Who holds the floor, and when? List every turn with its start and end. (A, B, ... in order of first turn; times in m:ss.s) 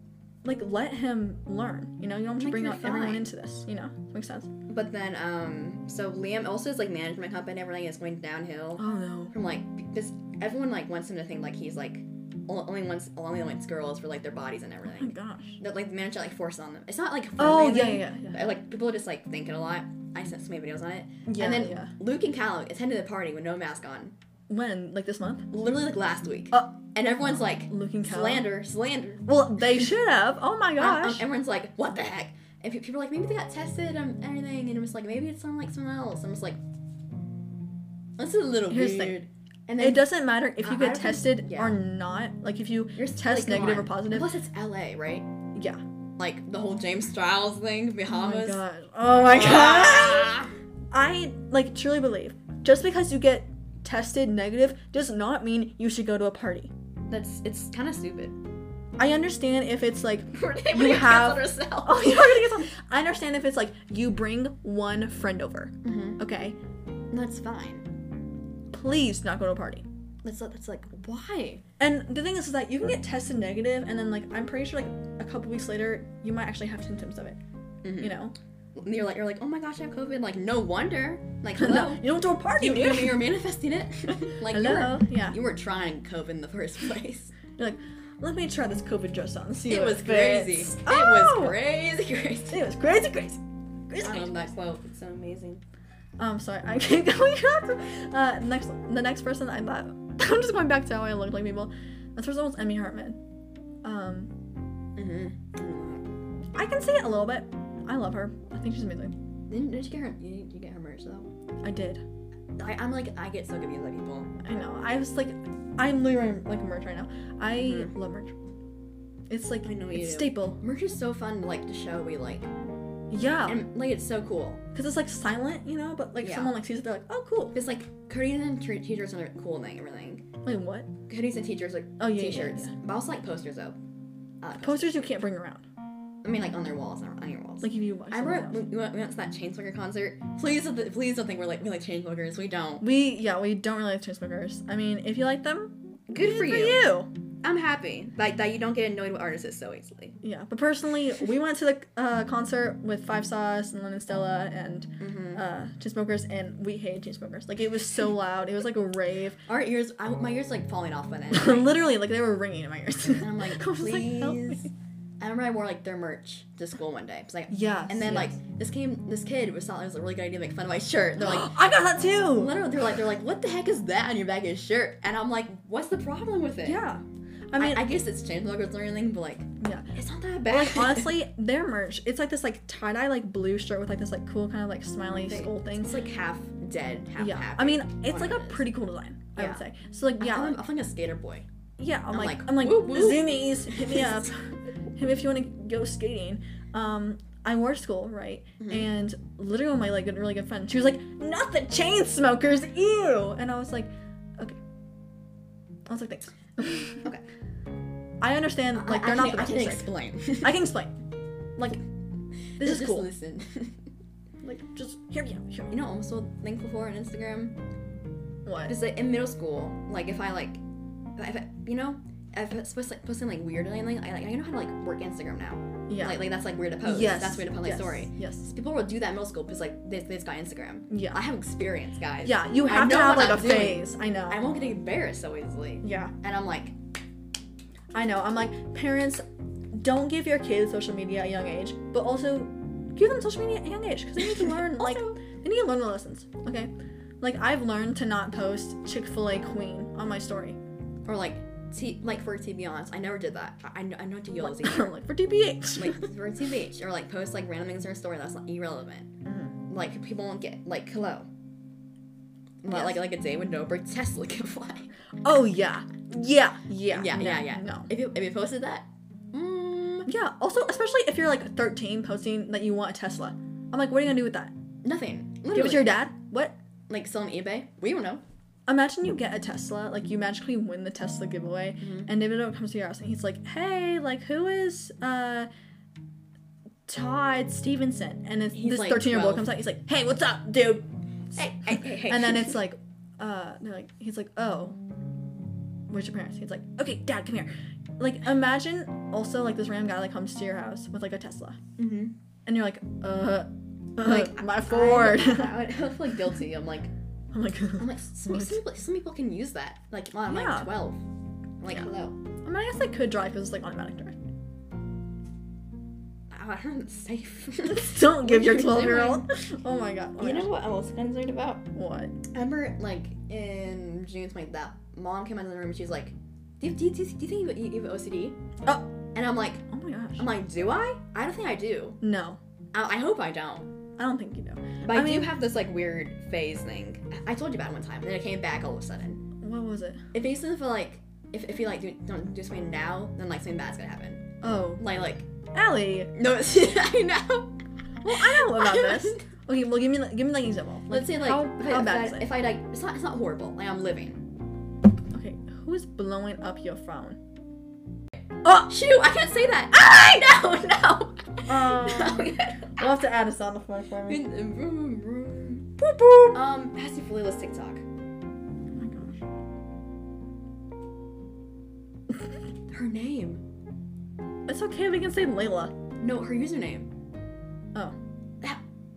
0:00.4-0:04.5 A
0:02.4-0:03.3 B
0:04.7-0:24.1 B
0:08.8-0:09.3 A
0:14.9-0:15.6 A
0:17.4-0:18.4 A
0:21.2-0:21.9 A
0:24.5-0:25.5 A
0:25.5-0:29.2 B
0:27.7-0:28.5 A
0:29.2-0:31.2 A
0:30.8-0:36.6 B
0:38.2-0:40.0 B
0:38.7-0:39.2 A
0:39.8-0:44.3 A
0:40.6-0:41.8 B
0:43.0-0:45.3 B
0:45.5-0:45.8 A
0:46.2-0:48.6 B
0:48.1-0:50.4 A
0:49.2-0:50.5 B
0:50.9-0:56.7 A
0:57.1-0:58.4 B
0:59.0-1:06.6 A
1:00.3-1:02.4 B
1:05.8-1:06.2 B
1:07.1-1:07.8 B
1:08.7-1:09.8 A
1:10.2-1:11.6 B
1:11.8-1:17.4 A
1:17.8-1:18.2 B
1:18.0-1:18.3 A
1:18.7-1:27.4 B
1:21.6-1:23.2 A
1:24.5-1:25.4 A
1:27.5-1:31.6 A
1:29.7-1:32.6 B
1:32.5-1:34.3 A
1:34.0-1:35.6 B
1:36.2-1:43.2 A
1:43.8-1:44.3 A
1:45.0-1:46.1 B
1:46.5-1:49.1 A
1:49.5-1:51.3 B
1:51.6-1:52.0 A
1:52.6-1:54.3 B
1:54.4-1:58.3 A
1:57.5-1:57.9 B
1:59.3-2:00.6 A
1:59.6-2:02.5 B
2:03.1-2:03.6 A
2:03.5-2:04.6 B
2:04.7-2:07.6 A
2:06.2-2:06.5 B
2:07.5-2:10.2 B
2:10.4-2:10.9 A
2:11.1-2:13.8 B
2:12.0-2:12.7 A
2:14.4-2:15.1 B
2:14.6-2:15.6 A
2:16.2-2:22.8 B
2:17.6-2:18.6 A
2:22.8-2:27.1 A
2:26.1-2:26.9 B
2:27.4-2:30.1 B
2:30.2-2:39.4 A
2:35.0-2:35.4 B
2:39.4-2:41.7 B
2:41.3-2:44.7 A
2:43.1-2:51.5 B
2:47.5-2:48.4 A
2:51.2-2:52.6 A
2:52.3-2:56.8 B
2:56.6-2:57.8 A
2:57.6-3:01.2 B
2:59.6-2:59.9 A
3:00.4-3:06.0 A
3:05.1-3:08.7 B
3:07.2-3:10.6 A
3:09.4-3:09.6 B
3:10.2-3:11.4 B
3:11.8-3:24.6 A
3:12.1-3:14.1 B
3:18.6-3:18.9 B
3:25.9-3:27.0 A
3:26.8-3:27.2 B
3:28.2-3:30.9 A
3:28.7-3:30.6 B
3:32.5-3:33.8 B
3:32.6-3:33.1 A
3:34.4-3:35.7 A
3:35.7-3:37.6 B
3:38.4-3:38.8 A
3:38.6-3:40.6 B
3:41.2-3:56.7 B
3:45.9-3:46.2 A
3:46.8-3:48.5 A
3:50.9-3:51.2 A
3:52.2-3:54.4 A
3:55.8-3:56.1 A
3:57.9-4:10.6 A
4:04.2-4:05.2 B
4:11.0-4:14.9 B
4:14.4-4:16.1 A
4:15.7-4:19.1 B
4:19.2-4:19.6 A
4:19.7-4:21.3 B
4:22.6-4:24.9 B
4:22.7-4:23.0 A
4:25.2-4:27.9 A
4:26.9-4:30.1 B
4:30.0-4:34.5 A
4:34.8-4:36.0 B
4:35.5-4:36.5 A
4:36.9-4:38.2 B
4:38.7-4:45.5 A
4:41.8-4:42.1 B
4:46.9-4:50.9 A
4:48.5-4:49.5 B
4:51.3-4:52.6 B
4:51.6-4:54.8 A
4:55.9-5:01.6 A
5:01.8-5:02.1 B
5:02.4-5:05.6 A
5:04.0-5:06.9 B
5:07.3-5:08.6 A
5:07.8-5:11.0 B
5:10.3-5:10.7 A
5:11.6-5:12.2 B
5:12.4-5:14.2 A
5:16.3-5:19.3 B
5:17.7-5:20.5 A
5:20.2-5:21.7 B
5:21.7-5:22.1 A
5:22.3-5:28.4 B
5:28.6-5:28.9 A
5:29.1-5:29.6 B
5:29.7-5:30.3 A
5:30.2-5:32.0 B
5:32.0-5:32.4 A
5:32.7-5:33.7 B
5:34.0-5:35.3 A
5:34.8-5:39.2 B
5:39.4-5:40.0 A
5:40.1-5:44.2 B
5:44.4-5:44.8 A
5:44.8-5:45.3 B
5:45.5-5:46.1 A
5:46.1-5:49.2 B
5:48.0-5:52.3 A
5:50.9-5:54.2 B
5:55.1-5:57.2 A
5:58.4-5:58.7 A
5:58.5-6:02.8 B
6:01.5-6:04.2 A
6:04.1-6:05.7 B
6:05.8-6:06.4 A
6:06.3-6:07.8 B
6:08.7-6:09.2 A
6:12.7-6:13.4 B
6:14.4-6:15.7 A
6:16.0-6:16.9 B